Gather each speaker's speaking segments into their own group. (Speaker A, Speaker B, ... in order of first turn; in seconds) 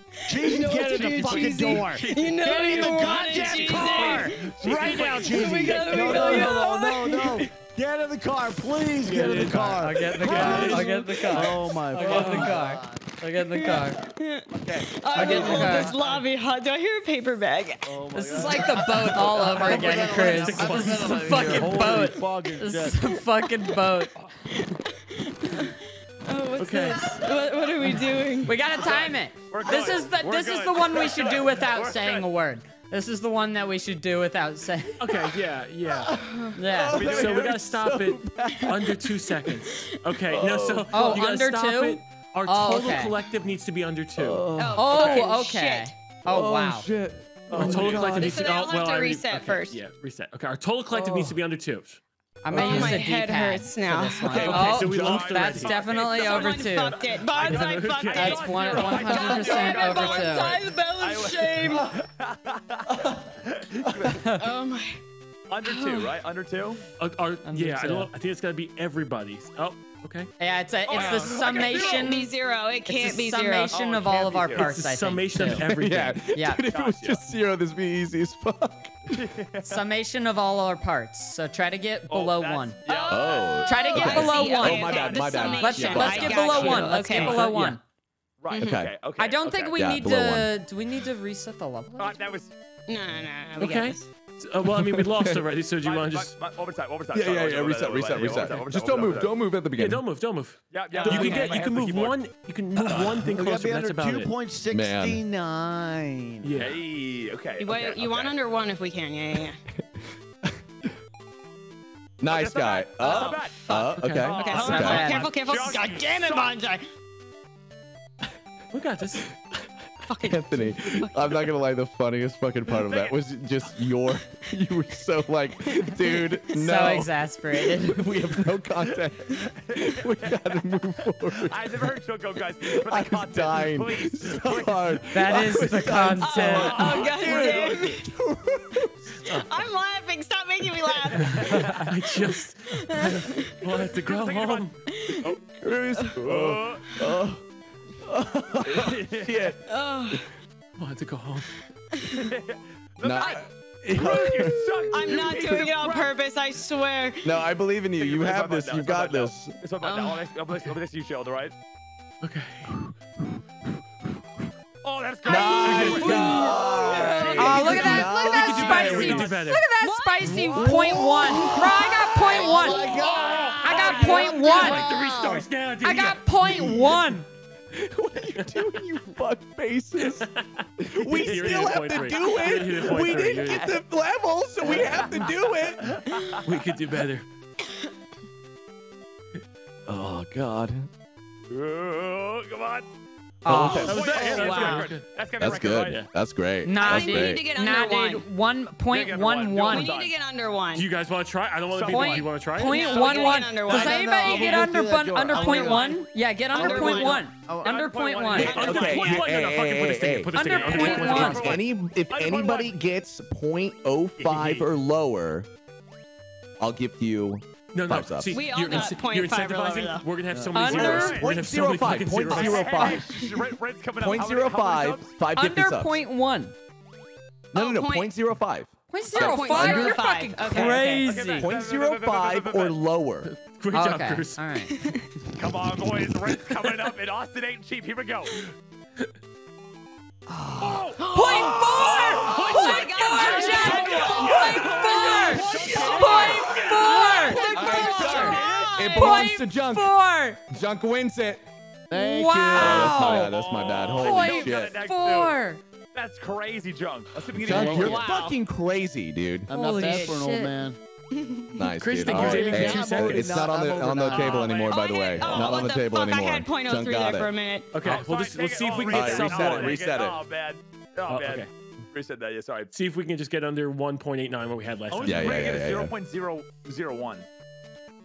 Speaker A: 0.2-7.5, 10.6-10.9, 13.5-18.0, 24.5-28.6, 36.1-36.6, 44.5-46.0, 48.1-49.8, 52.5-54.7, 56.0-62.0, 64.4-65.0, 65.7-66.1, 70.9-73.8, 83.6-87.6, 88.5-88.8, 92.9-94.1, 100.9-101.6, 107.6-109.6, 113.0-113.5, 114.3-116.9, 120.1-121.4, 136.2-138.1, 139.3-143.6, 144.9-145.3, 149.6-150.3, 152.0-152.2, 154.9-157.4, 159.8-160.3, 165.2-169.2, 169.7-174.9, 193.7-195.0, 196.8-198.3, 199.7-200.9, 202.5-204.7, 205.3-205.9, 206.5-207.3, 208.4-209.1, 218.3-220.1, 222.9-223.4, 227.5-228.1, 229.1-231.2, 234.7-235.1, 241.0-249.3, 257.8-258.3, 261.1-261.7, 264.5-267.8
Speaker B: 0.3-13.0, 14.6-16.2, 17.8-23.0, 103.3-106.5, 166.1-168.0, 170.5-175.5, 203.6-207.8, 210.8-211.4, 220.3-220.6, 247.9-248.9, 251.9-253.2, 259.5-260.8, 262.1-264.7
Speaker C: 0.7-5.7, 28.8-32.3, 36.9-37.6, 47.5-48.1, 54.5-64.3, 65.5-66.8, 70.9-72.1, 73.7-74.8, 76.7-77.2, 79.1-79.8, 82.1-86.1, 88.4-89.8, 92.0-92.5, 95.8-99.3, 100.7-102.2, 102.8-103.3, 106.5-108.3, 112.3-116.5, 122.8-123.2, 129.5-130.6, 131.3-135.0, 136.4-137.9, 141.2-141.9, 144.1-145.4, 146.2-146.9, 148.6-149.5, 152.1-156.1, 158.0-161.5, 164.8-167.9, 168.4-169.3, 173.2-173.7, 181.2-183.8, 184.6-186.5, 191.5-192.9, 193.6-196.0, 198.9-200.2, 201.7-203.5, 207.6-209.5, 210.4-212.7, 214.2-214.7, 220.6-221.3, 222.3-225.1, 230.9-232.8, 235.3-238.4, 240.6-248.3, 252.6-255.4, 255.9-258.0, 264.1-265.8, 267.8-272.7, 274.9-277.3
Speaker D: 3.8-6.4, 9.8-14.1, 15.1-16.0, 18.1-24.2, 28.4-35.1, 36.5-37.5, 40.9-43.2, 44.8-46.9, 52.4-57.0, 58.1-60.6, 67.4-68.1, 70.4-72.3, 72.8-75.7, 76.3-76.7, 79.6-83.1, 83.6-87.8, 89.2-92.2, 114.4-115.3, 126.5-128.1, 135.1-137.0, 165.9-166.3, 167.4-173.0, 173.6-174.9, 175.8-177.3, 193.4-194.0, 196.7-199.9, 201.8-208.5, 210.3-211.5, 220.5-221.2, 222.3-223.0, 225.3-226.6, 228.9-231.5, 233.7-234.8, 240.3-250.4, 251.9-253.3, 253.9-255.6, 257.9-258.3, 259.5-260.5
Speaker E: 9.0-12.6, 19.6-22.1, 26.6-27.3, 35.0-36.2, 37.0-44.5, 47.5-52.0, 54.3-55.8, 57.2-59.1, 67.0-70.3, 71.0-71.2, 74.6-76.2, 85.7-87.8, 93.6-96.3, 99.7-104.3, 106.4-106.8, 113.9-114.4, 118.7-119.3, 141.2-144.8, 150.8-151.6, 162.2-162.8, 165.7-166.6, 167.2-169.7, 172.9-176.2, 178.4-178.6, 180.0-183.8, 186.4-187.3, 193.5-195.1, 200.7-202.9, 208.4-211.6, 217.7-222.9, 233.3-234.5, 235.8-236.7, 238.3-239.1, 242.1-247.1, 257.4-257.9, 261.8-263.5, 267.7-269.9, 271.1-271.5, 272.7-275.6
Speaker F: 10.3-10.7, 36.7-39.2, 40.3-41.2, 44.2-45.1, 46.2-48.5, 52.5-53.0, 75.5-79.3, 83.1-86.7, 88.6-89.0, 89.8-90.5, 94.8-95.4, 97.1-100.0, 104.7-105.2, 109.8-110.6, 112.2-115.1, 120.2-127.1, 127.6-131.9, 132.6-139.4, 145.5-147.5, 148.0-150.2, 153.0-155.6, 157.2-159.6, 165.2-169.3, 177.7-186.2, 189.9-190.9, 193.5-194.0, 195.4-197.4, 208.3-210.4, 211.1-215.5, 216.6-218.4, 220.7-223.3, 224.0-226.0, 227.5-230.1, 231.3-233.3, 243.6-244.5, 245.6-246.6, 247.5-251.4, 252.5-254.8, 257.3-260.1, 261.6-267.3, 268.9-270.2, 275.0-275.9